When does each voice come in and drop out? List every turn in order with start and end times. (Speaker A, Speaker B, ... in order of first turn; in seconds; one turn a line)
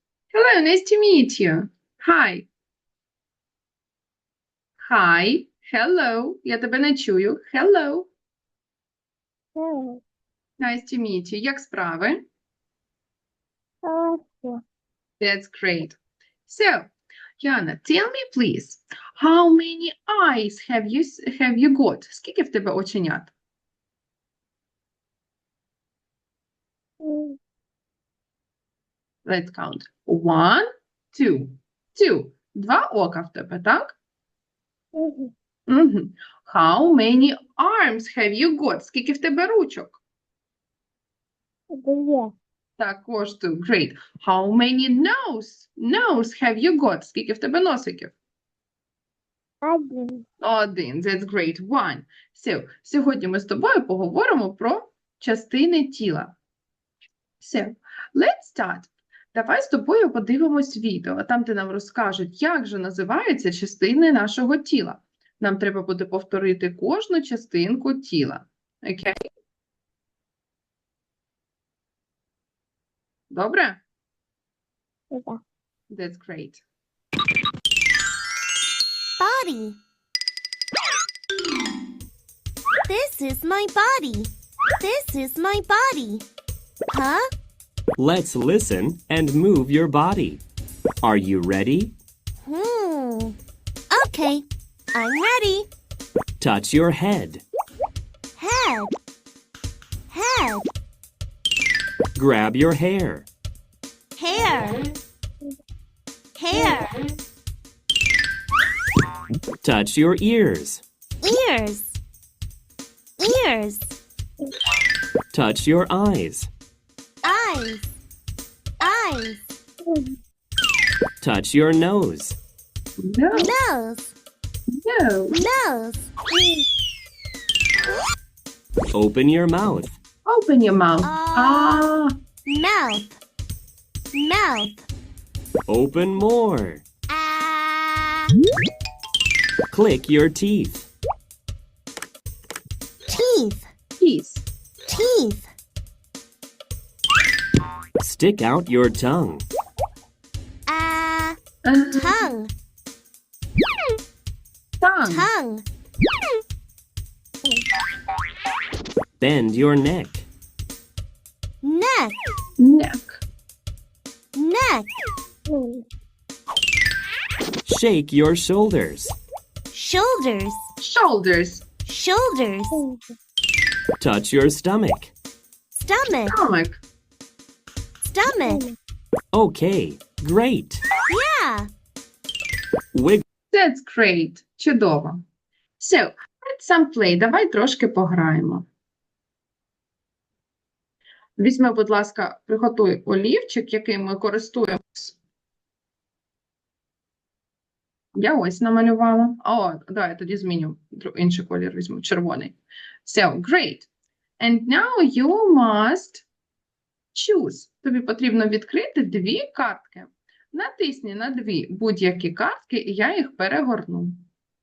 Speaker A: 0.3-2.5
Speaker A: 4.8-8.1
Speaker B: 9.6-10.0
Speaker A: 10.6-12.2
Speaker B: 13.8-14.6
Speaker A: 15.2-23.3
Speaker B: 27.0-27.4
Speaker A: 29.3-34.0
Speaker B: 35.0-35.3
Speaker A: 35.7-40.0
Speaker B: 41.7-42.3
Speaker A: 42.8-48.1
Speaker B: 49.6-50.2
Speaker A: 50.4-56.4
Speaker A: 57.4-69.2
Speaker A: 73.3-73.8
Speaker A: 75.9-76.6
Speaker C: 79.2-79.8
Speaker C: 82.9-86.2
Speaker C: 86.9-87.3
Speaker D: 88.0-90.4
Speaker D: 91.0-92.0
Speaker C: 92.4-93.4
Speaker C: 93.9-95.7
Speaker D: 96.4-97.4
Speaker C: 98.4-98.9
Speaker C: 100.1-100.7
Speaker D: 102.2-103.3
Speaker C: 104.2-104.9
Speaker C: 106.4-107.0
Speaker D: 109.6-110.8
Speaker C: 111.2-112.0
Speaker C: 113.2-114.0
Speaker D: 115.3-116.5
Speaker C: 117.2-117.9
Speaker C: 118.8-119.5
Speaker D: 121.2-122.4
Speaker A: 123.0-123.5
Speaker C: 123.3-124.1
Speaker A: 124.8-125.4
Speaker C: 125.3-126.1
Speaker D: 128.9-130.0
Speaker A: 130.2-132.1
Speaker C: 131.0-131.9
Speaker C: 132.5-133.2
Speaker C: 134.1-134.9
Speaker D: 135.7-136.9
Speaker C: 137.1-138.3
Speaker D: 139.7-140.9
Speaker C: 143.1-143.7
Speaker A: 144.0-144.4
Speaker C: 144.9-145.5
Speaker D: 148.0-149.5
Speaker C: 150.7-152.5
Speaker A: 151.7-152.3
Speaker A: 154.8-155.3
Speaker C: 155.0-155.7
Speaker D: 159.2-160.3
Speaker C: 161.6-162.1
Speaker A: 162.6-163.2
Speaker C: 164.3-164.9
Speaker B: 165.5-165.8
Speaker D: 167.7-169.2
Speaker C: 169.7-170.6
Speaker A: 170.8-171.7
Speaker C: 171.8-172.8
Speaker B: 172.7-173.0
Speaker D: 174.0-175.1
Speaker C: 175.7-176.3
Speaker A: 176.3-176.8
Speaker C: 178.0-178.6
Speaker D: 179.3-180.8
Speaker C: 181.1-181.7
Speaker D: 182.9-183.2
Speaker A: 183.5-185.2
Speaker A: 185.8-188.7
Speaker A: 191.4-195.2
Speaker A: 198.2-206.3
Speaker A: 207.1-214.3